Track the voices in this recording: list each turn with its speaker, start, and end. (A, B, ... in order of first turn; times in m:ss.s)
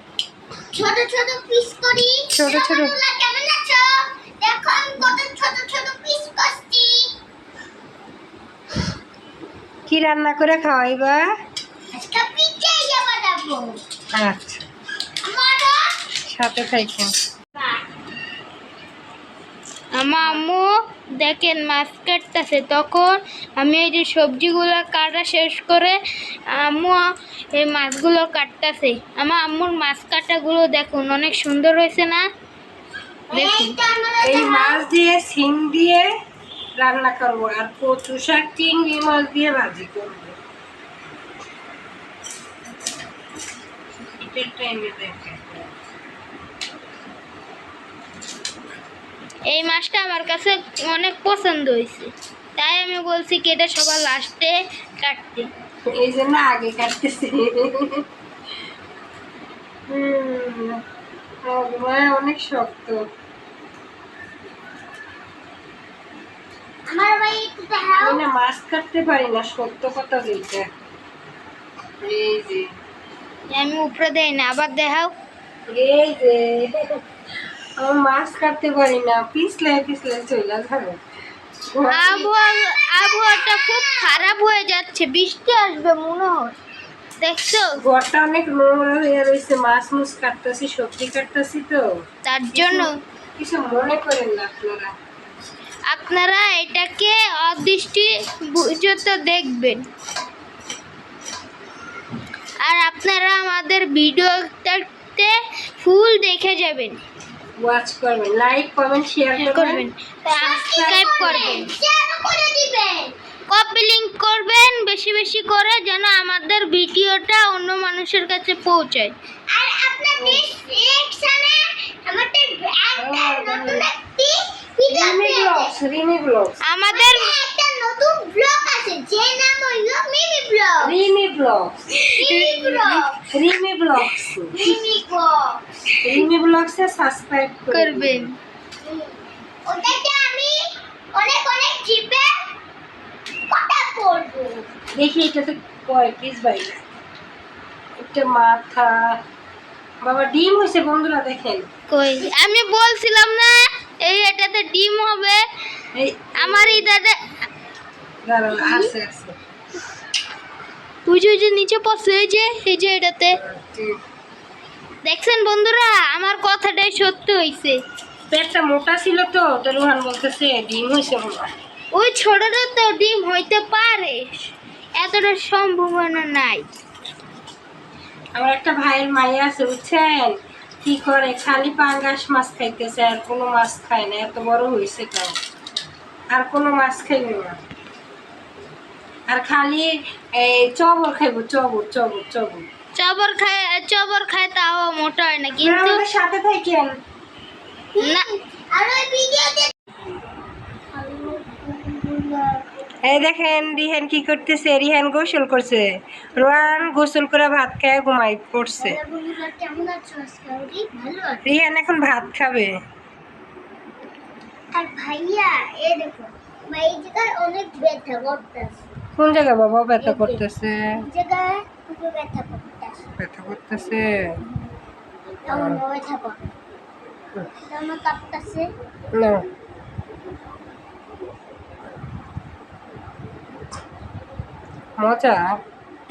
0:00.7-0:07.1 A
0:02.3-0:03.0 B
0:09.9-0:11.3 B
0:11.9-0:13.8 A
0:14.1-0:14.6 B
0:15.2-0:15.9 A
0:16.2-0:17.1 B
0:19.9-0:26.0 C
0:26.5-0:32.2 C
0:33.3-0:34.9 A
0:33.3-0:33.8 C
0:34.2-0:36.1 B
0:36.8-0:40.4 B
0:44.2-0:45.7 B
0:49.5-0:55.5 C
0:55.9-0:58.0 B
0:59.9-1:00.8 B
1:01.4-1:03.0 B
1:06.9-1:08.2 A
1:08.0-1:10.7 B
1:12.0-1:12.7 B
1:13.5-1:15.1 C
1:15.7-1:16.8 B
1:17.8-1:21.0 B
1:21.7-1:22.2 B
1:21.9-1:26.6 C
1:21.9-1:24.4 A
1:27.2-1:27.8 C
1:27.8-1:31.9 B
1:32.2-1:32.9 C
1:32.5-1:34.9 B
1:35.9-1:39.9 C
1:42.6-1:47.0 C
1:47.6-1:49.9 B
1:49.5-1:51.7 C
1:50.4-1:51.7 B
1:50.4-1:53.1 A
1:53.5-1:59.2 C
1:59.5-2:05.8 A
2:00.2-2:00.4 B
2:03.0-2:03.9 B
2:04.9-2:06.6 B
2:06.6-2:07.3 C
2:06.9-2:10.9 A
2:10.8-2:12.1 B
2:12.2-2:13.1 C
2:12.2-2:13.2 A
2:13.2-2:14.6 B
2:14.6-2:15.6 A
2:14.6-2:14.9 C
2:16.0-2:18.3 B
2:17.7-2:18.4 C
2:18.8-2:22.3 A
2:23.5-2:24.7 A
2:24.9-2:26.8 B
2:28.0-2:29.2 B
2:30.0-2:31.7 B
2:31.9-2:35.4 C
2:35.9-2:36.9 B
2:36.4-2:37.2 C
2:38.2-2:39.4 B
2:41.1-2:43.4 C
2:43.3-2:44.0 B
2:45.0-2:47.8 C
2:48.3-2:51.5 B
2:51.9-2:56.7 C
2:58.4-3:05.4 B
3:06.3-3:07.6 B
3:09.3-3:12.7 B
3:13.0-3:16.0 C
3:15.5-3:16.9 B
3:17.9-3:19.7 A
3:18.0-3:18.2 C
3:20.9-3:22.6 A
3:23.0-3:29.0 B
3:28.8-3:31.4 A
3:31.4-3:32.7 B
3:34.7-3:38.8 A
3:39.2-3:41.0 B
3:40.0-3:40.4 A
3:41.0-3:43.0 A
3:43.2-3:44.4 B
3:45.4-3:46.4 A
3:45.5-3:45.8 B
3:47.6-3:48.7 A
3:49.2-3:49.4 B
3:55.0-3:55.6 B